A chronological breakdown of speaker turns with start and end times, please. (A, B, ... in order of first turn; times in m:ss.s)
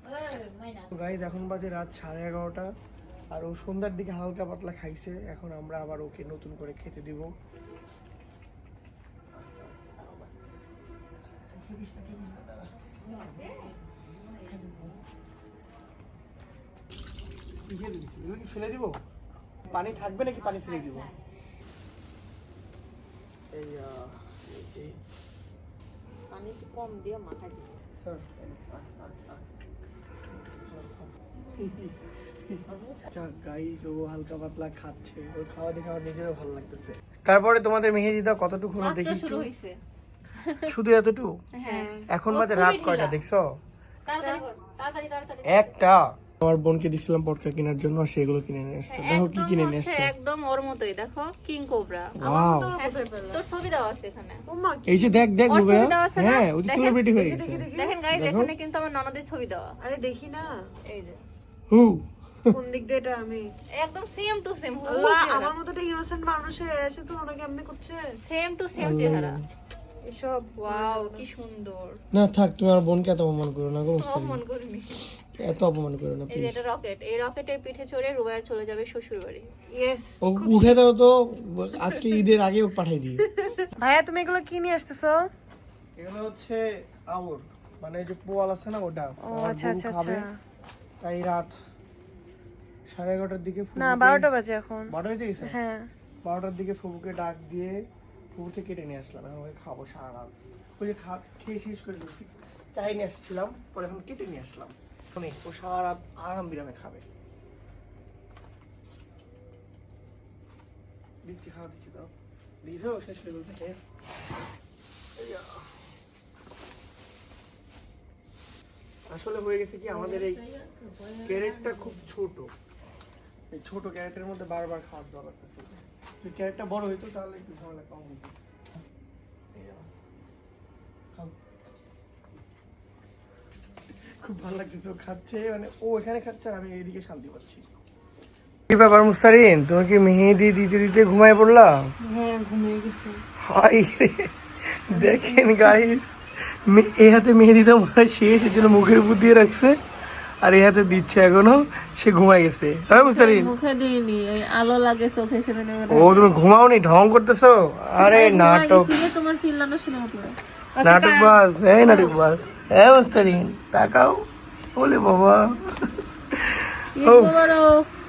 0:00.2-0:00.8 A
0:00.9-0:02.7 B
0:03.3-0:07.3 B
0:09.4-0:10.3 B
0:11.5-0:12.9 B
0:14.4-0:14.9 B
0:17.7-0:19.0 B
0:19.7-0:21.1 B
0:23.5-0:25.0 B
0:26.3-0:27.6 A
0:28.0-0:29.6 B
0:30.3-0:32.0 B
0:32.5-0:39.5 B
0:38.8-0:39.8 A
0:40.4-0:40.7 A
0:40.7-0:41.4 B
0:41.6-0:43.2 A
0:41.6-0:42.1 C
0:42.1-0:43.5 B
0:44.1-0:45.8 A
0:45.5-0:50.1 B
0:48.9-0:52.2 A
0:52.2-0:52.7 B
0:52.2-0:53.4 C
0:52.8-0:54.4 A
0:54.5-0:55.2 C
0:54.9-0:58.5 B
0:55.5-0:57.0 A
0:57.1-0:58.0 C
0:57.7-0:59.8 A
0:59.8-1:00.6 C
1:00.9-1:01.2 A
1:01.7-1:02.6 B
1:02.5-1:03.5 C
1:03.7-1:05.5 A
1:04.9-1:08.2 C
1:08.2-1:09.4 A
1:08.8-1:09.4 B
1:10.0-1:11.3 C
1:10.6-1:12.0 A
1:12.1-1:14.4 B
1:14.0-1:15.1 A
1:15.4-1:16.6 B
1:16.3-1:19.5 A
1:19.7-1:20.8 C
1:20.2-1:23.3 B
1:23.4-1:25.3 C
1:26.0-1:30.3 B
1:29.2-1:30.4 C
1:31.0-1:31.6 B
1:32.9-1:34.3 B
1:33.8-1:35.9 C
1:34.9-1:35.6 B
1:36.2-1:37.8 B
1:38.3-1:47.0 B
1:51.2-1:52.1 B
1:52.6-1:53.8 B
1:55.2-1:55.7 B
1:59.1-2:00.4 B
1:59.9-2:02.0 C
2:01.2-2:02.5 B
2:03.5-2:08.3 B
2:09.5-2:09.9 B
2:14.2-2:17.7 B
2:18.7-2:21.9 B
2:22.0-2:23.2 C
2:23.4-2:29.8 B
2:25.0-2:25.6 C
2:30.4-2:33.5 B
2:32.9-2:36.3 A
2:35.9-2:38.9 B
2:38.0-2:40.9 A
2:40.8-2:47.4 B
2:40.8-2:41.4 C
2:41.9-2:42.2 A
2:47.0-2:47.9 A